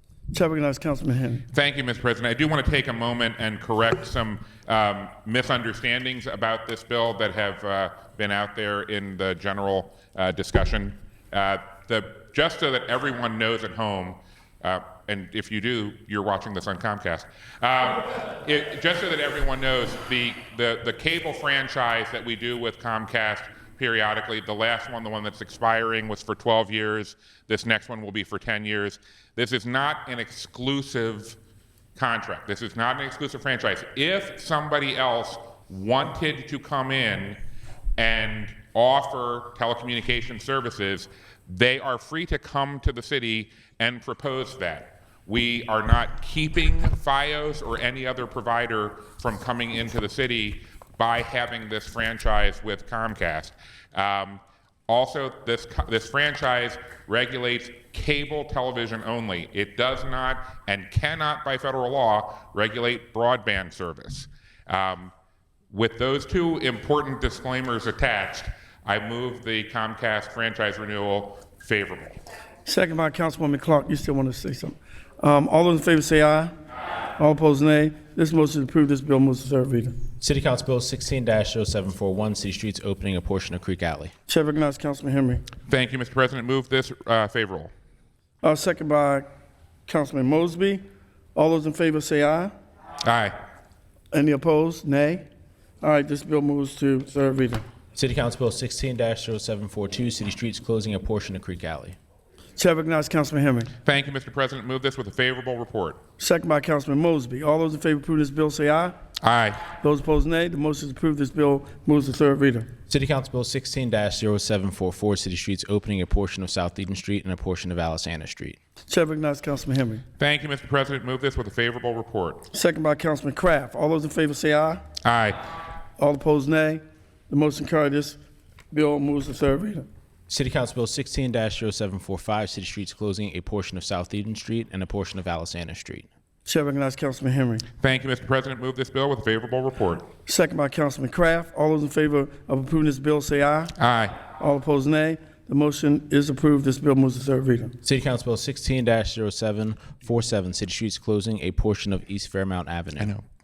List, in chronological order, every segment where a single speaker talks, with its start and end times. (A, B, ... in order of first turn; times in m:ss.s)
0:00.3-0:01.4 A
0:01.5-0:31.4 B
0:32.0-0:37.4 B
0:38.0-1:05.1 B
1:05.7-1:12.2 B
1:12.7-1:16.5 A
1:17.2-1:20.0 A
1:20.2-1:24.1 C
1:24.3-1:25.5 A
1:25.7-1:27.7 B
1:28.4-1:29.3 A
1:29.9-1:30.8 A
1:31.4-1:32.5 A
1:33.0-1:33.4 B
1:34.1-1:35.3 A
1:35.8-1:37.6 A
1:38.0-1:42.0 C
1:42.6-1:43.7 A
1:43.8-1:46.0 B
1:46.2-1:49.0 A
1:49.2-1:49.6 B
1:49.8-1:52.7 A
1:52.9-1:58.6 C
1:58.9-2:00.0 A
2:00.2-2:02.5 B
2:02.5-2:04.8 A
2:05.0-2:05.4 B
2:06.0-2:08.2 A
2:08.7-2:09.9 A
2:10.3-2:16.1 C
2:16.5-2:17.6 A
2:17.8-2:20.1 B
2:20.3-2:23.7 A
2:23.8-2:24.2 B
2:24.4-2:27.8 A
2:27.8-2:33.2 C